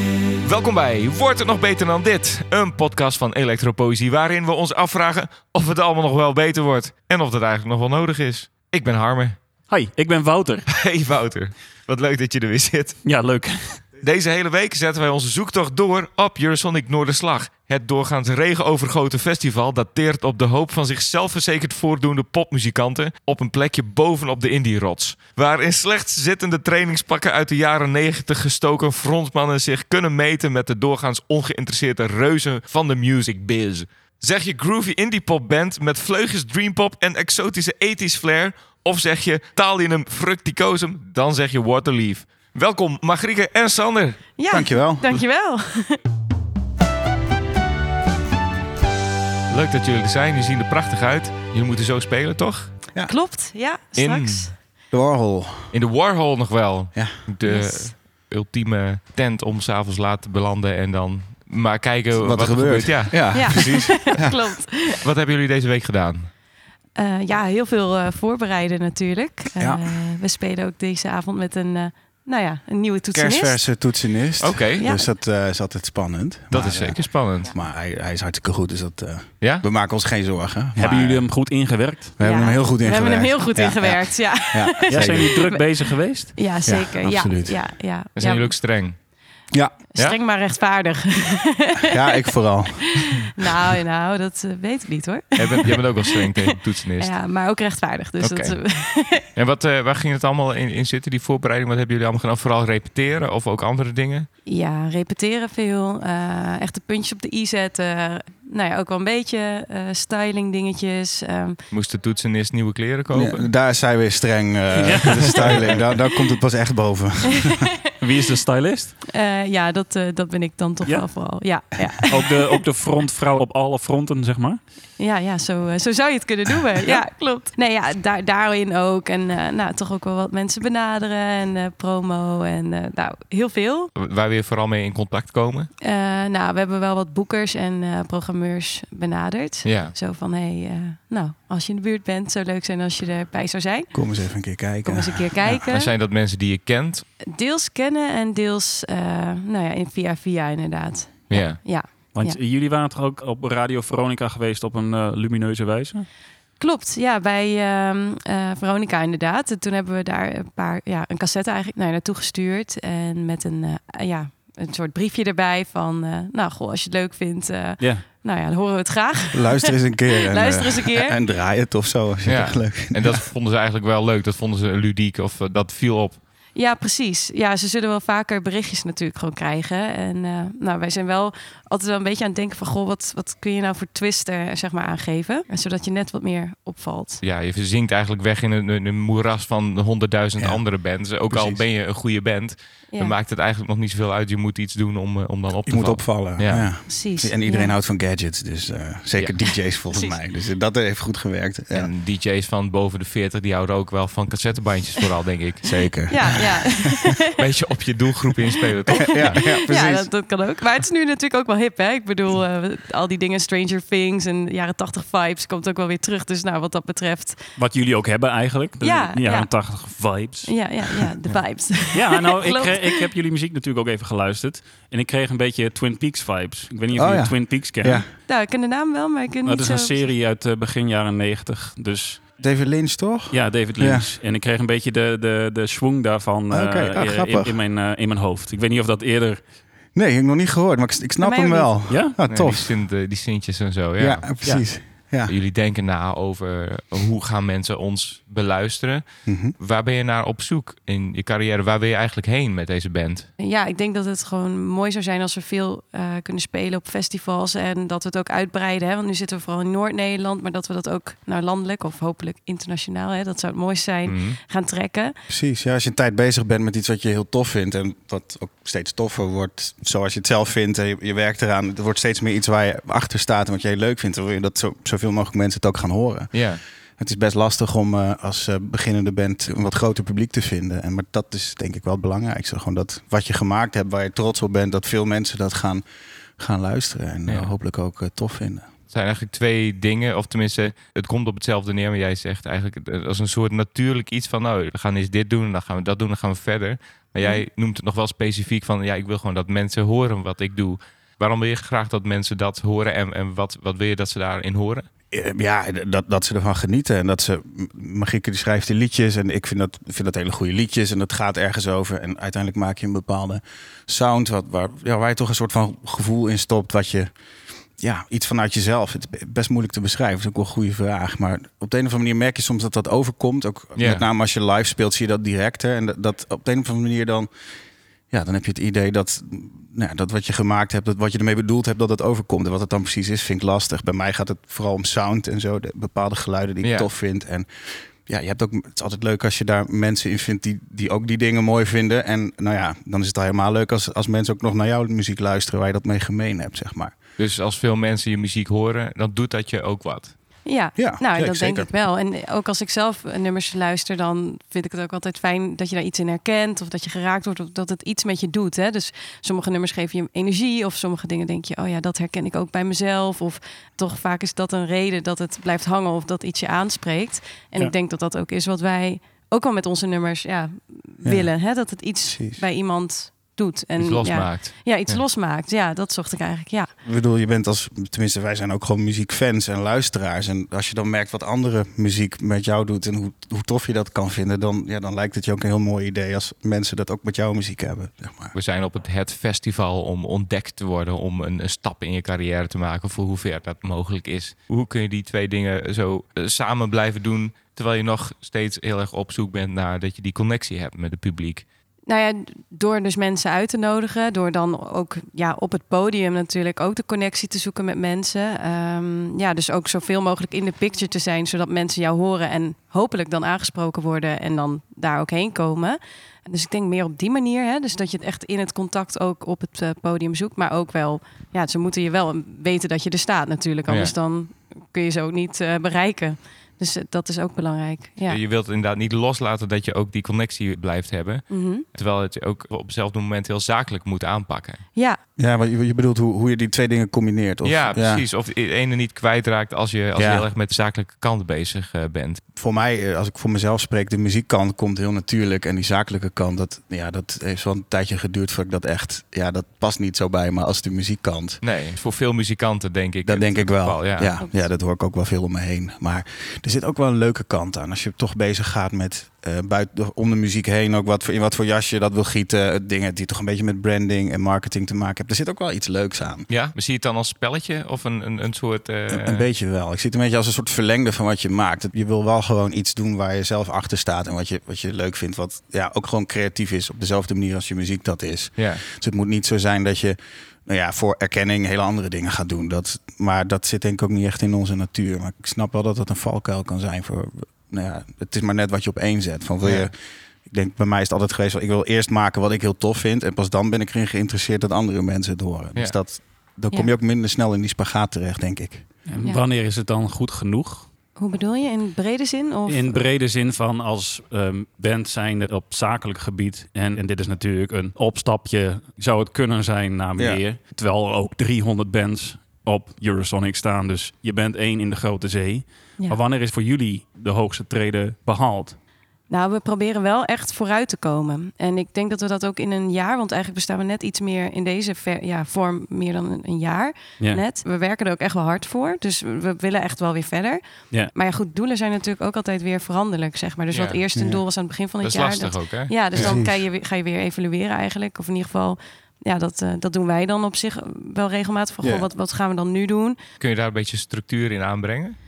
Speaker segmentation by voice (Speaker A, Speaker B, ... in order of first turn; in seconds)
Speaker A: 0.4-9.4, 10.7-13.0, 14.0-44.2, 49.5-52.7, 54.0-54.5, 55.7-64.2, 64.9-66.3, 74.4-74.9, 76.5-77.5, 88.2-89.0, 95.3-97.2, 98.2-98.6, 99.3-104.3, 111.7-113.5, 133.9-135.7, 139.6-139.9, 145.6-147.0, 151.3-151.6, 172.2-176.2, 187.2-196.7, 199.2-199.5, 201.7-205.8, 207.4-209.4, 242.2-244.4, 245.3-253.3, 264.1-264.4, 276.3-276.6, 287.3-287.5, 288.9-304.9, 323.8-324.0, 336.6-336.9, 347.2-350.1, 373.8-375.0, 388.3-401.4, 423.7-423.9, 428.1-434.6, 437.4-442.2, 451.4-454.1, 466.3-469.3, 478.4-478.6, 489.4-489.7, 533.5-533.8, 534.8-536.2, 543.2-545.0
Speaker B: 9.7-10.7, 13.0-13.8, 80.8-82.2, 84.9-86.4, 114.7-115.9, 118.0-118.9, 122.0-124.6, 152.1-156.1, 167.8-168.0, 217.6-221.0, 221.9-228.1, 229.4-232.3, 233.3-239.4, 241.9-242.1, 498.9-500.7, 502.5-518.6
Speaker C: 44.4-46.0, 53.0-54.5, 57.5-57.9, 63.3-65.0, 66.9-73.6, 74.8-75.1, 82.2-88.5, 89.9-91.8, 92.8-99.3, 104.5-111.6, 117.4-117.7, 119.1-122.6, 125.0-133.9, 135.8-143.9, 144.8-145.9, 147.3-152.4, 156.6-171.2, 176.5-187.2, 196.9-197.7, 206.1-207.4, 208.9-217.4, 218.8-219.5, 220.4-223.1, 228.2-230.0, 241.2-241.7, 253.4-265.1, 350.4-376.7, 401.9-428.2, 431.3-431.6, 454.2-454.5, 500.9-502.8, 519.1-543.0
Speaker D: 44.5-45.1, 54.9-55.7, 62.2-64.3, 69.6-69.9, 73.1-81.3, 82.2-85.4, 86.6-87.6, 91.9-93.0, 113.1-117.7, 143.9-145.6, 169.3-173.2, 191.3-191.6, 195.7-201.9, 205.6-206.8, 208.9-210.1, 226.9-228.0, 232.4-234.1, 236.5-237.6, 239.9-242.7, 244.0-245.3, 249.2-249.5, 265.3-276.4, 277.0-285.8, 286.4-288.7, 305.1-317.1, 317.8-327.3, 328.1-337.5, 338.0-346.9, 350.8-351.7, 371.0-371.3, 372.1-372.4, 376.8-388.3, 435.2-438.0, 439.9-440.2, 442.4-451.4, 453.0-466.3, 468.9-489.7, 490.3-498.6, 510.0-510.2, 533.9-534.2, 535.9-536.3, 541.6-541.9